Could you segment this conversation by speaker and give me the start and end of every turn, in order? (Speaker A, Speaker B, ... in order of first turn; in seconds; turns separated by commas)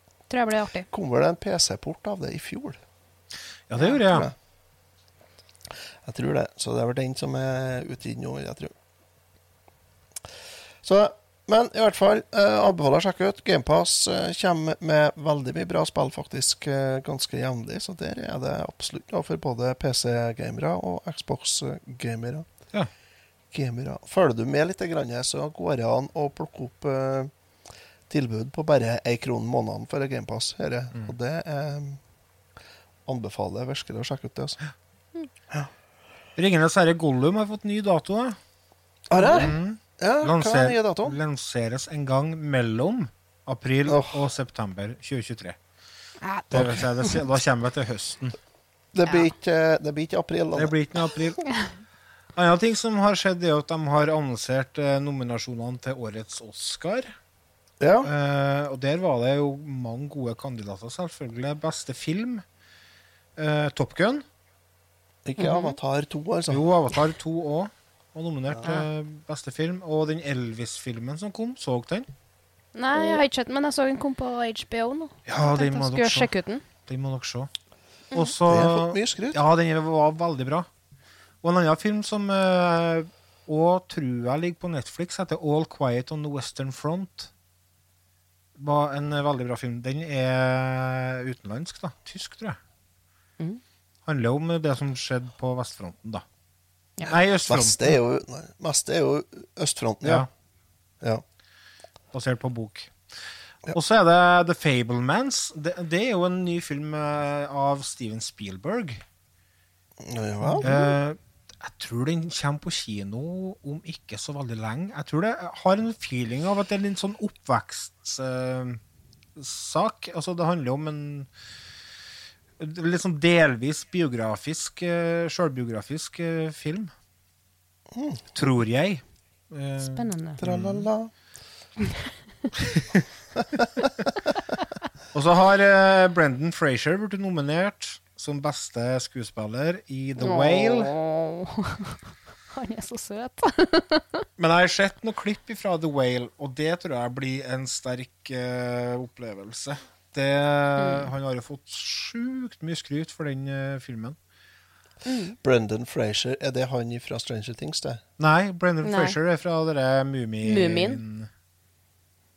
Speaker A: 0.3-0.9, Speaker B: 0.9-2.8, Speaker C: 3.7-4.3, Speaker B: 6.0-8.7, Speaker B: 10.8-22.5, Speaker B: 23.5-27.3, Speaker B: 28.1-32.0, Speaker B: 33.1-34.6, Speaker C: 36.4-38.4, Speaker B: 39.1-41.2, Speaker C: 39.2-45.6, Speaker B: 43.9-44.2, Speaker A: 46.2-46.5, Speaker C: 46.5-48.4, Speaker B: 46.5-46.9, Speaker B: 48.9-50.8, Speaker C: 50.5-51.4, Speaker C: 52.4-57.1, Speaker B: 57.8-58.1, Speaker C: 58.0-62.4, Speaker C: 63.4-64.2, Speaker B: 65.3-66.6, Speaker A: 65.4-65.8, Speaker C: 66.5-72.1, Speaker A: 72.8-76.6, Speaker C: 75.3-76.3, Speaker C: 76.8-77.5, Speaker C: 78.1-80.7, Speaker B: 78.5-79.4, Speaker C: 81.4-87.3, Speaker C: 88.6-92.6, Speaker C: 94.1-96.2, Speaker C: 97.0-98.0, Speaker B: 97.5-100.3, Speaker C: 100.0-100.3, Speaker C: 102.1-102.9, Speaker C: 103.7-109.0, Speaker B: 110.0-110.7, Speaker A: 110.6-110.9, Speaker C: 110.6-118.8, Speaker C: 119.4-121.3, Speaker C: 122.6-126.9, Speaker B: 127.9-128.2, Speaker C: 128.3-130.9, Speaker A: 129.8-130.4, Speaker B: 130.4-131.1, Speaker A: 131.8-132.1, Speaker C: 132.6-133.0, Speaker C: 135.1-140.9, Speaker A: 140.2-142.0, Speaker A: 142.5-144.2, Speaker C: 144.4-154.2, Speaker A: 150.8-151.1, Speaker A: 155.1-155.3, Speaker B: 155.4-158.0, Speaker C: 158.2-161.3, Speaker A: 158.8-159.2, Speaker A: 160.4-161.0